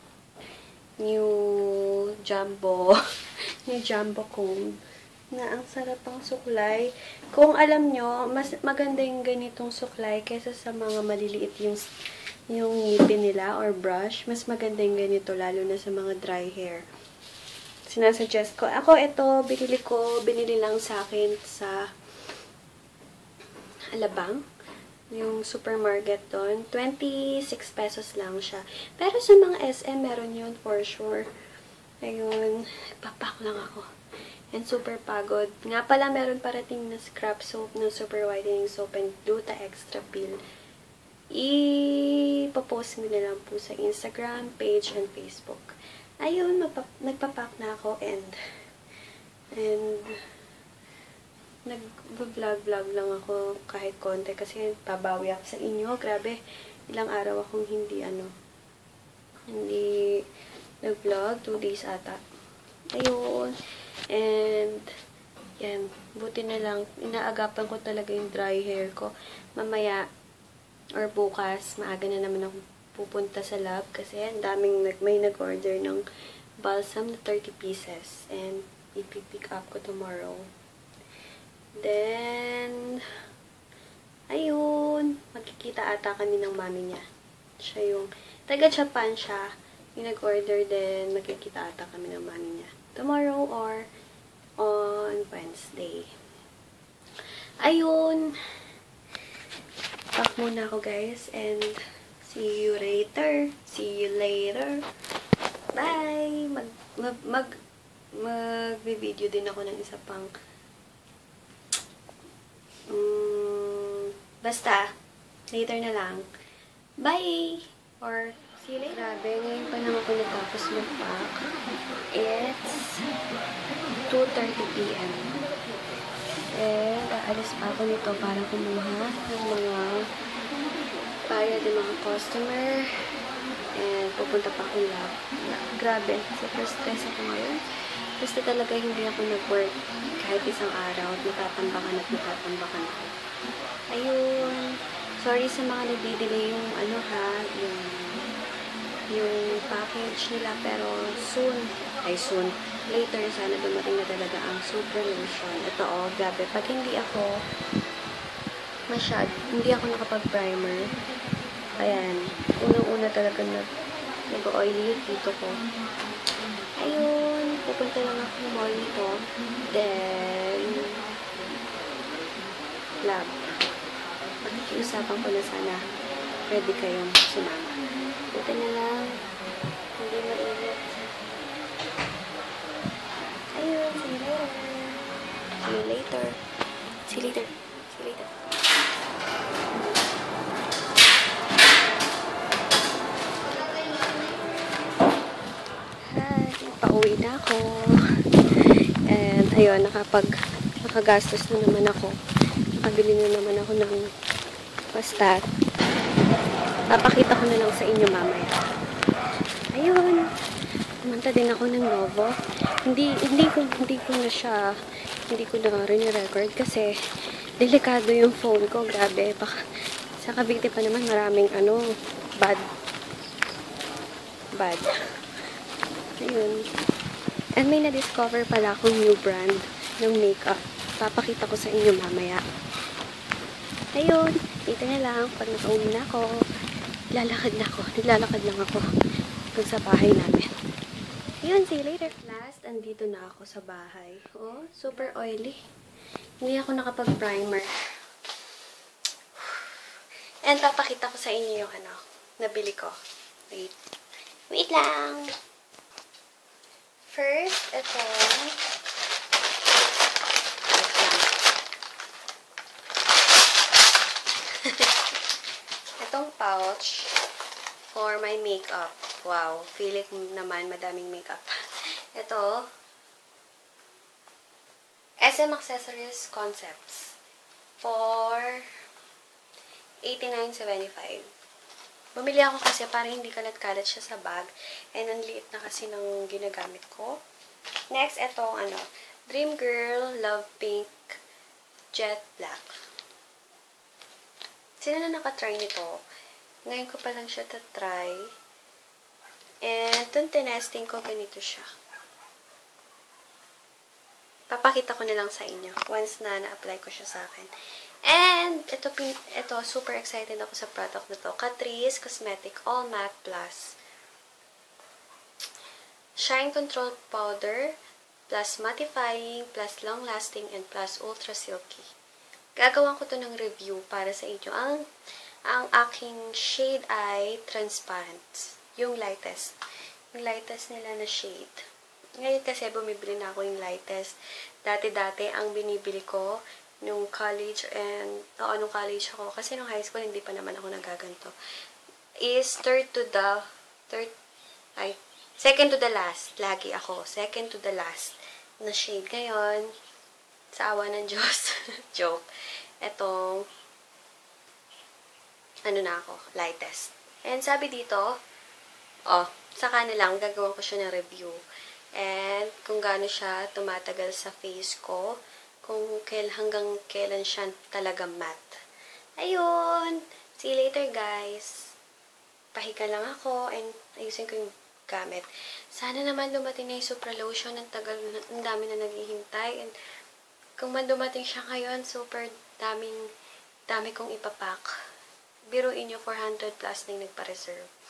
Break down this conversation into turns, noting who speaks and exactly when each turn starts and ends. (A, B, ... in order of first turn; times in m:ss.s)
0:01.0-0:03.0 A
0:03.6-0:04.7 A
0:05.3-0:11.8 A
0:12.5-0:16.8 A
0:17.9-0:21.8 A
0:23.9-0:24.4 A
0:25.1-0:31.2 A
0:32.0-0:33.8 A
0:34.5-0:40.4 A
0:41.4-0:45.7 A
0:46.2-0:48.3 A
0:49.6-0:50.1 A
0:51.6-0:56.4 A
0:56.9-0:58.3 A
0:59.5-1:00.2 A
1:00.8-1:02.2 A
1:02.9-1:03.6 A
1:04.1-1:04.8 A
1:05.6-1:10.0 A
1:11.0-1:16.0 A
1:16.6-1:20.4 A
1:21.8-1:22.8 A
1:24.3-1:27.0 A
1:27.6-1:29.4 A
1:30.0-1:33.8 A
1:34.6-1:36.1 A
1:37.6-1:38.3 A
1:40.2-1:44.8 A
1:45.8-1:47.5 A
1:48.2-1:50.3 A
1:52.9-1:54.9 A
1:55.5-1:56.2 A
1:57.0-2:01.3 A
2:02.1-2:03.0 A
2:04.1-2:05.3 A
2:06.6-2:10.0 A
2:11.3-2:12.8 A
2:13.8-2:17.6 A
2:18.2-2:23.0 A
2:23.9-2:28.2 A
2:29.1-2:37.4 A
2:38.9-2:40.8 A
2:41.8-2:43.7 A
2:44.3-2:45.5 A
2:46.8-2:49.1 A
2:49.7-2:51.0 A
2:53.0-2:53.3 A
2:54.4-2:55.8 A
2:56.5-2:57.7 A
2:58.3-2:59.1 A
3:00.0-3:01.0 A
3:03.6-3:05.0 A
3:05.6-3:06.4 A
3:07.1-3:08.3 A
3:09.7-3:10.0 A
3:13.6-3:14.4 A
3:16.1-3:17.7 A
3:19.1-3:20.3 A
3:20.8-3:22.2 A
3:22.7-3:24.0 A
3:24.9-3:25.4 A
3:26.9-3:28.7 A
3:29.7-3:30.2 A
3:31.0-3:32.3 A
3:32.8-3:34.6 A
3:35.3-3:36.9 A
3:37.6-3:39.6 A
3:40.2-3:41.8 A
3:44.6-3:44.9 A
3:46.2-3:46.6 A
3:47.6-3:52.4 A
3:54.0-3:56.4 A
3:57.1-3:58.8 A
3:59.6-4:00.5 A
4:01.4-4:05.6 A
4:06.4-4:07.7 A
4:09.4-4:09.7 A
4:10.4-4:13.0 A
4:14.5-4:15.2 A
4:17.1-4:18.6 A
4:20.7-4:21.3 A
4:24.6-4:25.0 A
4:26.0-4:27.1 A
4:27.9-4:31.5 A
4:32.1-4:32.6 A
4:35.2-4:37.1 A
4:37.8-4:38.6 A
4:40.0-4:41.2 A
4:42.2-4:47.2 A
4:47.9-4:51.1 A
4:51.9-4:52.7 A
4:54.8-4:56.0 A
4:56.7-4:58.2 A
4:59.6-5:01.7 A
5:04.5-5:07.5 A
5:08.0-5:13.8 A
5:16.2-5:17.7 A
5:18.3-5:21.8 A
5:22.6-5:24.8 A
5:25.5-5:29.5 A
5:30.1-5:31.6 A
5:32.2-5:34.1 A
5:34.6-5:41.3 A
5:42.2-5:44.1 A
5:44.8-5:49.7 A
5:50.6-5:52.2 A
5:52.8-5:53.4 A
5:55.6-5:58.0 A
5:59.1-6:01.4 A
6:02.0-6:05.1 A
6:05.6-6:08.5 A
6:09.2-6:11.5 A
6:12.6-6:19.7 A
6:20.6-6:23.0 A
6:23.7-6:24.7 A
6:25.5-6:27.7 A